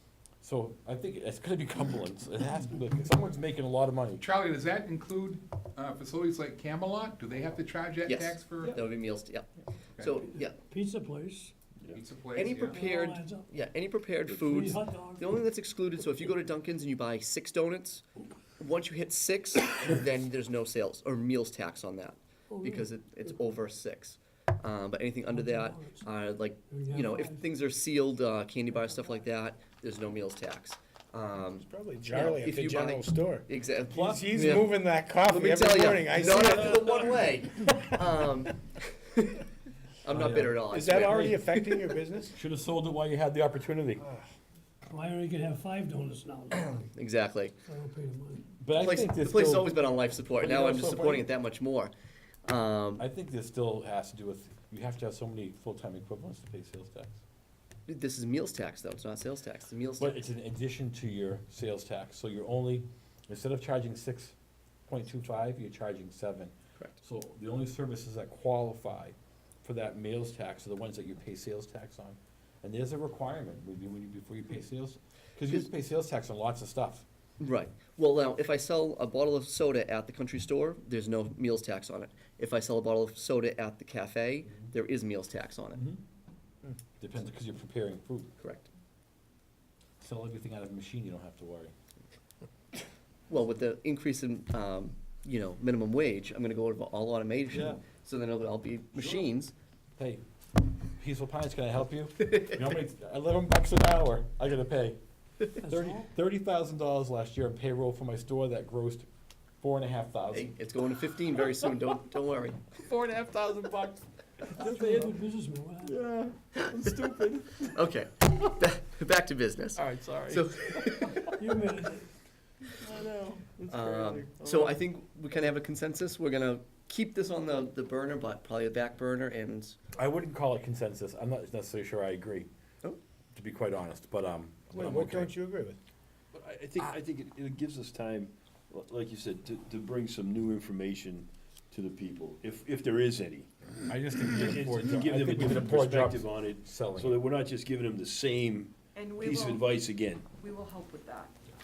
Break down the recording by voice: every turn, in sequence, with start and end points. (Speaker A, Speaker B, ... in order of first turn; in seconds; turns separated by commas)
Speaker A: 0.4-4.3, Speaker B: 4.2-8.8, Speaker C: 8.1-10.6, Speaker D: 10.3-11.5, Speaker B: 11.9-12.8, Speaker C: 12.3-18.0, Speaker D: 12.7-13.5, Speaker D: 14.3-15.3, Speaker C: 18.6-39.5, Speaker D: 22.5-23.3, Speaker D: 25.3-26.1, Speaker D: 26.7-27.5, Speaker E: 31.4-38.0, Speaker C: 40.0-41.9, Speaker A: 40.1-41.4, Speaker E: 40.7-42.4, Speaker A: 42.3-44.0, Speaker D: 44.9-46.9, Speaker C: 46.9-47.5, Speaker D: 47.6-48.5, Speaker A: 48.6-49.7, Speaker C: 48.8-51.9, Speaker A: 50.3-51.3, Speaker C: 52.5-53.0, Speaker A: 53.0-57.2, Speaker C: 57.9-60.2, Speaker A: 60.0-64.4, Speaker A: 64.9-77.0, Speaker C: 77.4-85.8, Speaker A: 85.8-86.0, Speaker A: 87.0-88.3, Speaker C: 88.4-88.7, Speaker A: 90.0-91.7, Speaker C: 93.3-99.5, Speaker A: 97.5-97.8, Speaker A: 99.0-99.3, Speaker A: 100.0-100.2, Speaker A: 100.8-105.0, Speaker A: 105.6-109.1, Speaker D: 105.6-106.1, Speaker A: 109.6-110.5, Speaker C: 110.3-112.6, Speaker A: 112.7-115.2, Speaker D: 114.5-116.0, Speaker A: 115.8-117.8, Speaker C: 117.7-121.3, Speaker A: 119.8-121.0, Speaker D: 121.4-122.1, Speaker A: 122.8-124.8, Speaker C: 123.7-129.8, Speaker A: 129.9-132.5, Speaker A: 133.3-135.3, Speaker E: 134.7-135.8, Speaker F: 136.3-143.5, Speaker A: 143.9-147.2, Speaker F: 144.2-150.2, Speaker G: 148.9-151.3